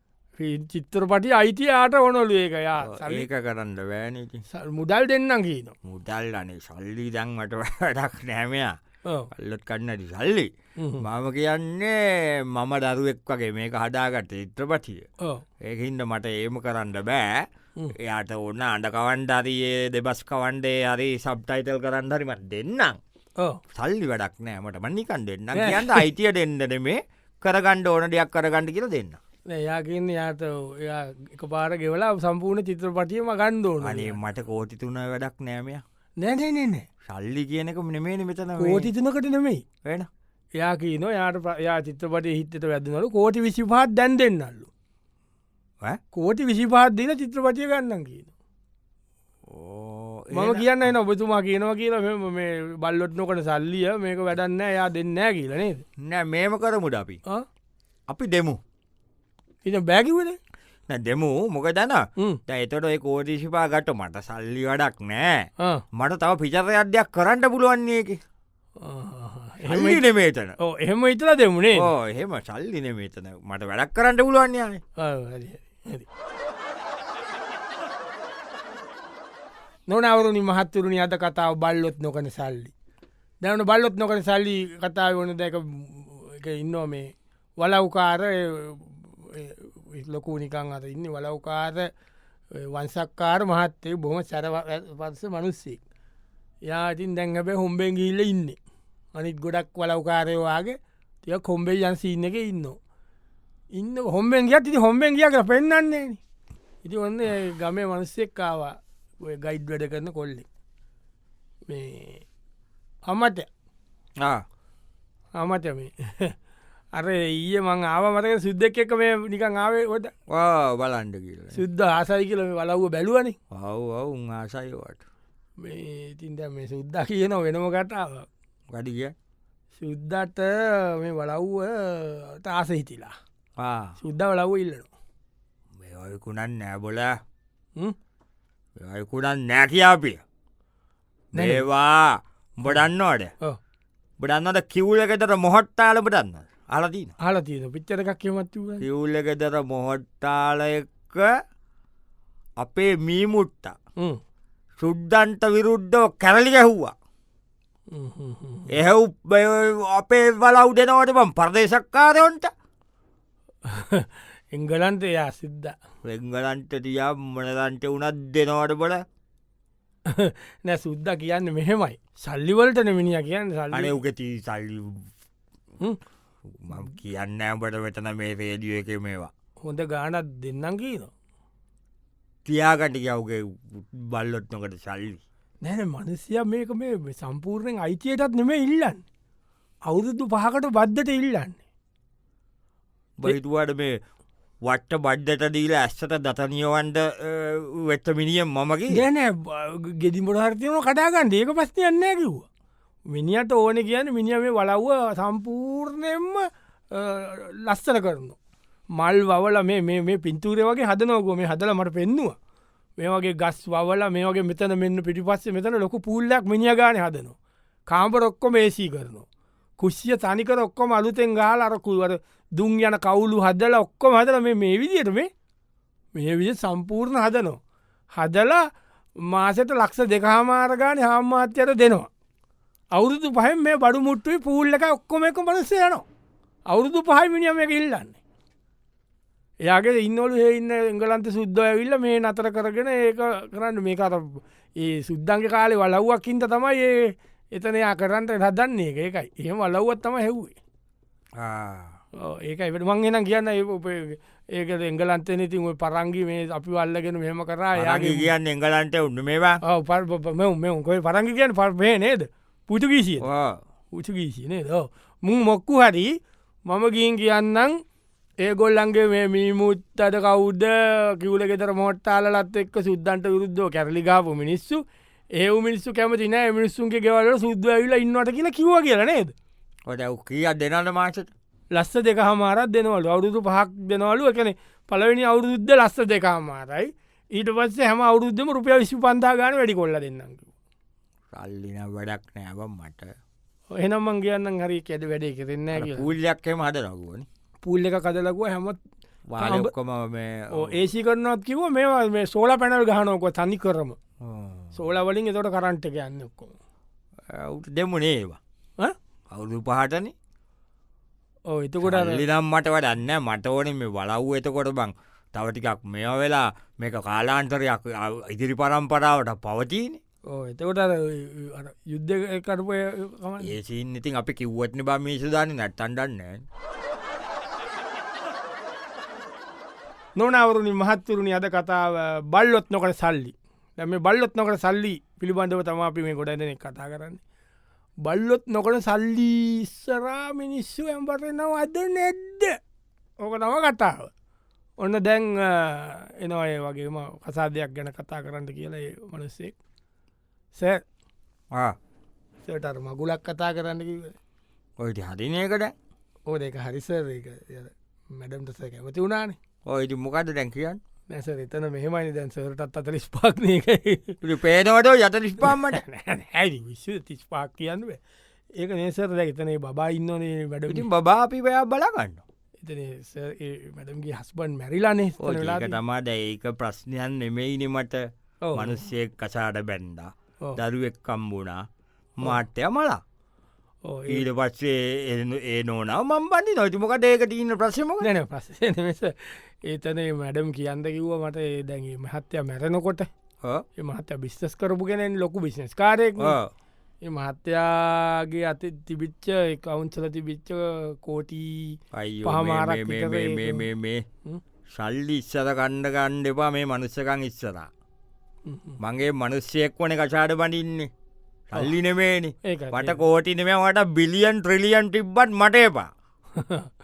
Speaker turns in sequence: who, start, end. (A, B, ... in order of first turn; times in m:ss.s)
0:00.4-0:03.3 A
0:02.8-0:04.4 B
0:04.5-0:05.8 A
0:05.8-0:08.8 B
0:09.3-0:15.1 B
0:10.8-0:11.0 A
0:15.6-0:23.0 B
0:23.7-0:29.2 B
0:25.5-0:26.0 A
0:29.5-0:34.2 A
0:33.8-0:35.8 B
0:36.2-0:36.9 A
0:37.0-0:38.9 B
0:38.6-0:39.6 A
0:39.8-0:40.1 B
0:40.6-0:44.7 A
0:46.1-0:48.3 A
0:49.5-0:50.8 B
0:50.3-0:55.8 A
0:56.0-0:57.2 B
0:58.1-0:58.6 B
0:59.6-1:00.4 A
1:00.9-1:08.2 B
1:05.6-1:05.8 A
1:08.8-1:10.0 A
1:09.7-1:10.6 B
1:10.6-1:11.9 A
1:11.7-1:14.8 B
1:15.0-1:16.1 A
1:19.9-1:22.7 A
1:23.4-1:31.9 A
1:32.5-1:35.8 A
1:36.6-1:38.6 A
1:39.1-1:42.8 A
1:43.7-1:46.2 A
1:46.8-1:50.5 A
1:51.7-1:52.2 A
1:53.1-1:53.5 A
1:54.2-1:54.4 B
1:55.3-1:56.3 A
1:56.9-2:00.1 A
2:00.3-2:01.6 B
2:01.5-2:03.4 A
2:03.5-2:05.0 B
2:05.6-2:08.3 A
2:08.7-2:09.1 B
2:09.8-2:13.2 A
2:13.6-2:14.0 B
2:14.0-2:14.9 A
2:15.8-2:17.1 B
2:18.8-2:20.2 B
2:21.3-2:23.3 B
2:21.3-2:21.6 A
2:24.2-2:27.1 B
2:27.2-2:28.8 A
2:28.8-2:31.3 B
2:32.6-2:33.8 B
2:34.8-2:36.9 B
2:37.9-2:38.7 A
2:38.7-2:42.5 B
2:43.6-2:45.7 A
2:46.0-2:49.0 B
2:50.0-2:54.0 A
2:53.7-2:55.1 B
2:56.5-2:59.3 B
2:59.6-3:01.1 A
3:02.4-3:05.2 B
3:05.6-3:09.0 A
3:09.9-3:11.6 A
3:13.2-3:14.0 B
3:14.6-3:19.0 B
3:18.9-3:22.5 A
3:23.1-3:28.4 A
3:28.9-3:32.4 A
3:33.0-3:37.4 A
3:37.9-3:39.2 A
3:39.8-3:45.3 A
3:46.1-3:47.6 A
3:48.1-3:48.6 A
3:49.2-3:52.1 A
3:52.9-3:56.0 A
3:56.7-3:58.2 A
3:59.6-4:10.6 A
4:11.4-4:12.0 B
4:12.2-4:18.3 A
4:17.8-4:19.6 B
4:19.6-4:23.3 A
4:23.2-4:23.6 B
4:23.9-4:27.8 A
4:28.4-4:34.8 A
4:35.3-4:39.3 A
4:39.9-4:41.3 B
4:41.7-4:50.5 A
4:51.3-4:53.1 B
4:53.7-4:56.1 A
4:55.7-4:57.2 B
4:57.6-4:58.8 A
4:59.3-5:00.8 B
4:59.4-4:59.7 A
5:00.5-5:04.0 A
5:04.2-5:04.8 B
5:04.7-5:06.6 A
5:07.3-5:08.4 B
5:09.3-5:10.1 B
5:11.5-5:12.2 A
5:11.8-5:20.0 B
5:20.3-5:23.5 A
5:23.4-5:26.4 B
5:30.2-5:37.2 A
5:38.0-5:42.6 A
5:43.2-5:44.1 A
5:44.8-5:49.5 A
5:50.5-5:50.8 A
5:51.5-5:51.8 B
5:52.4-5:54.2 A
5:54.8-5:55.7 B
5:56.3-5:59.4 A
5:59.6-6:00.8 B
6:01.1-6:04.2 A
6:04.2-6:05.8 B
6:05.4-6:08.0 A
6:08.6-6:10.9 A
6:10.7-6:12.2 B
6:12.6-6:15.8 A
6:15.2-6:21.6 B
6:18.4-6:18.8 A
6:22.2-6:23.0 B
6:23.8-6:24.2 A
6:24.1-6:28.1 B
6:28.0-6:33.1 A
6:33.8-6:36.4 A
6:36.2-6:36.5 B
6:37.0-6:43.7 A
6:41.9-6:44.0 B
6:44.7-6:47.7 B
6:48.4-6:48.8 A
6:48.8-6:50.9 B
6:51.5-6:55.9 B
6:52.4-6:53.0 A
6:56.4-6:56.7 A